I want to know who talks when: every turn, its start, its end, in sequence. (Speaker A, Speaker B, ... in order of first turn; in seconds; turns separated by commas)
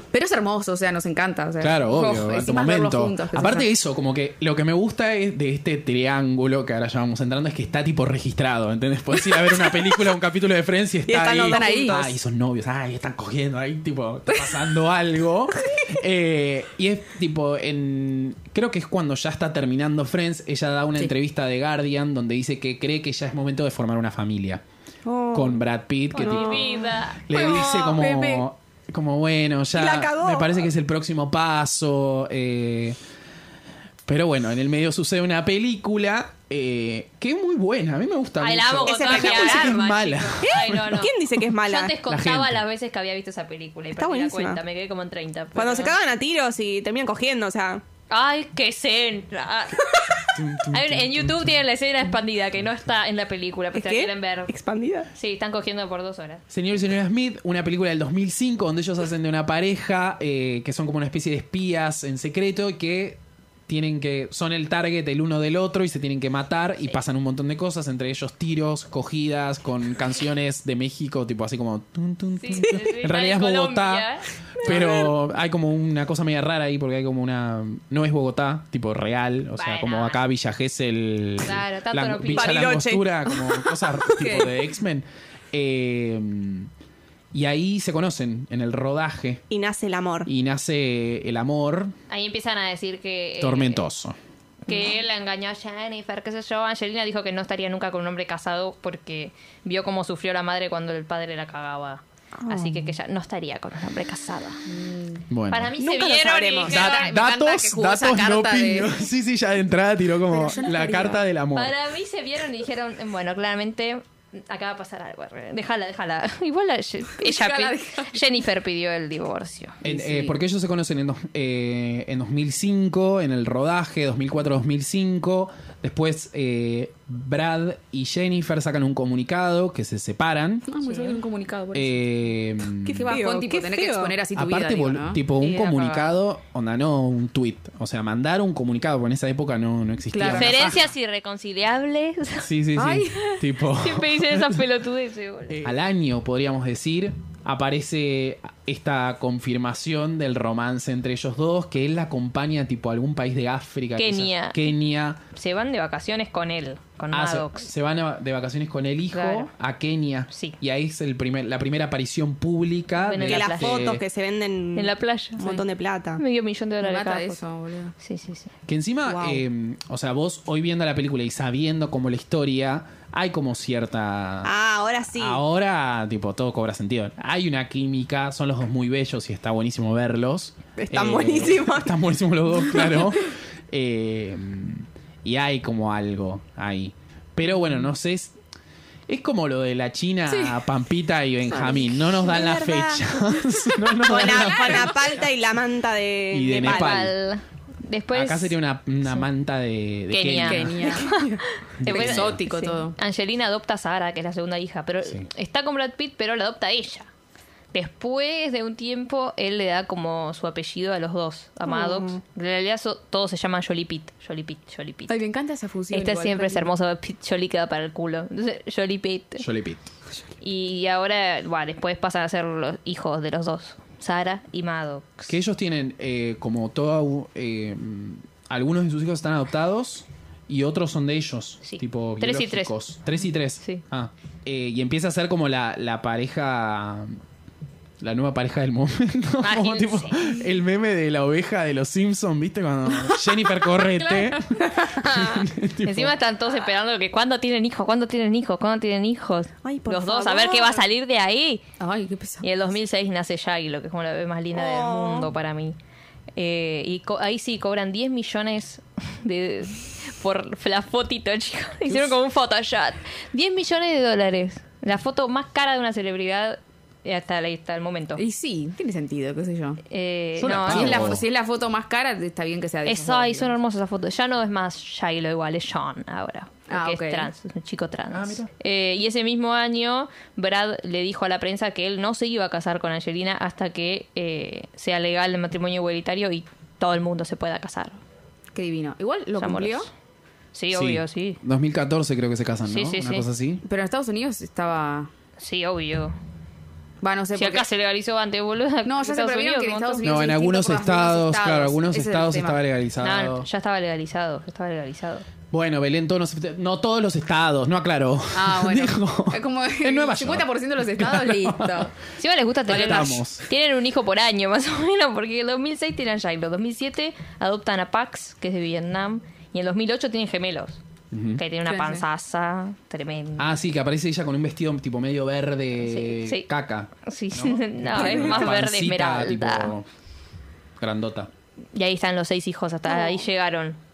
Speaker A: 0.1-3.7, Speaker B: 1.6-24.6, Speaker C: 11.1-12.1, Speaker A: 11.5-12.0, Speaker C: 25.0-25.6, Speaker B: 25.3-33.0, Speaker D: 26.1-27.4, Speaker C: 26.1-28.3, Speaker A: 27.4-28.4, Speaker C: 29.7-30.7, Speaker B: 34.0-41.0, Speaker D: 38.4-41.1, Speaker C: 38.8-39.8, Speaker C: 40.4-42.0, Speaker D: 41.6-46.0, Speaker B: 42.0-42.6, Speaker C: 44.0-44.6, Speaker C: 45.5-47.8, Speaker D: 48.1-54.5, Speaker B: 50.3-51.6, Speaker C: 53.7-55.1, Speaker D: 55.1-56.4, Speaker B: 56.5-74.1, Speaker D: 72.4-74.3, Speaker B: 74.6-86.7, Speaker C: 74.6-75.1, Speaker D: 79.5-80.2, Speaker D: 81.4-82.8, Speaker C: 82.3-84.0, Speaker A: 84.2-84.5, Speaker B: 87.3-89.4, Speaker C: 89.5-90.3, Speaker B: 90.2-91.9, Speaker D: 92.1-93.8, Speaker B: 93.4-94.2, Speaker D: 94.7-104.6, Speaker C: 102.4-102.9, Speaker A: 104.7-105.2, Speaker B: 105.3-105.7, Speaker D: 105.5-107.1, Speaker C: 105.8-106.9, Speaker B: 106.7-111.7, Speaker A: 106.7-109.0, Speaker A: 110.3-111.2, Speaker D: 111.5-119.8, Speaker A: 117.2-118.2, Speaker A: 119.8-120.4, Speaker B: 119.8-130.7, Speaker A: 130.7-132.3, Speaker D: 130.8-131.2, Speaker B: 131.7-133.1, Speaker C: 132.8-134.2, Speaker A: 132.9-135.8, Speaker B: 134.3-140.8, Speaker D: 135.5-136.1, Speaker A: 140.1-140.8, Speaker D: 140.2-142.5, Speaker B: 142.4-144.7, Speaker A: 142.8-143.2, Speaker D: 143.2-145.7, Speaker B: 145.6-155.2, Speaker D: 154.0-154.7, Speaker D: 155.3-157.7, Speaker B: 157.1-164.0, Speaker D: 159.1-159.5, Speaker D: 160.3-160.6, Speaker D: 163.0-163.9, Speaker C: 163.2-166.2, Speaker D: 164.7-165.6, Speaker D: 166.2-167.4, Speaker A: 166.8-167.9, Speaker D: 168.0-168.5, Speaker B: 168.7-174.5, Speaker C: 169.1-169.4, Speaker C: 174.4-175.4, Speaker B: 175.2-188.3, Speaker C: 180.8-182.0, Speaker C: 182.7-183.0, Speaker B: 189.1-195.2, Speaker A: 190.3-190.6, Speaker C: 191.6-193.1, Speaker C: 193.9-197.0, Speaker A: 194.4-194.9, Speaker B: 196.3-197.1, Speaker D: 196.6-198.6, Speaker B: 198.1-200.9, Speaker D: 200.1-207.1, Speaker A: 200.4-201.2, Speaker B: 201.8-202.4, Speaker A: 201.8-202.9, Speaker D: 207.7-215.2, Speaker C: 211.7-212.2, Speaker A: 215.1-216.7, Speaker D: 215.9-219.4, Speaker B: 219.4-219.9, Speaker D: 220.4-225.3, Speaker B: 225.3-237.2, Speaker D: 231.6-232.7, Speaker B: 238.0-246.2, Speaker D: 239.4-240.3, Speaker A: 243.8-245.4, Speaker D: 245.8-251.6, Speaker C: 249.6-250.8, Speaker A: 251.8-252.5, Speaker D: 252.4-255.8, Speaker C: 254.5-255.3, Speaker D: 256.3-268.2, Speaker A: 268.2-269.8, Speaker D: 269.9-271.2, Speaker B: 270.4-271.2, Speaker A: 270.6-273.5, Speaker D: 272.8-288.0, Speaker A: 276.7-277.3, Speaker B: 278.1-278.5, Speaker A: 288.5-289.9, Speaker D: 289.4-289.9, Speaker D: 290.5-291.4, Speaker B: 290.7-293.6, Speaker D: 292.7-293.3, Speaker A: 293.6-295.1, Speaker D: 295.4-296.1, Speaker A: 297.0-297.6, Speaker D: 297.3-300.1, Speaker A: 298.8-302.6, Speaker B: 300.0-303.5, Speaker D: 303.0-305.2, Speaker B: 305.5-311.9, Speaker A: 308.3-311.9, Speaker D: 312.2-320.8, Speaker B: 312.7-313.4, Speaker B: 321.1-321.4, Speaker D: 321.4-323.5, Speaker A: 321.7-322.0, Speaker B: 323.4-329.9, Speaker D: 325.8-326.5, Speaker D: 327.0-329.7, Speaker B: 330.8-331.3, Speaker D: 331.7-333.8, Speaker A: 332.9-333.2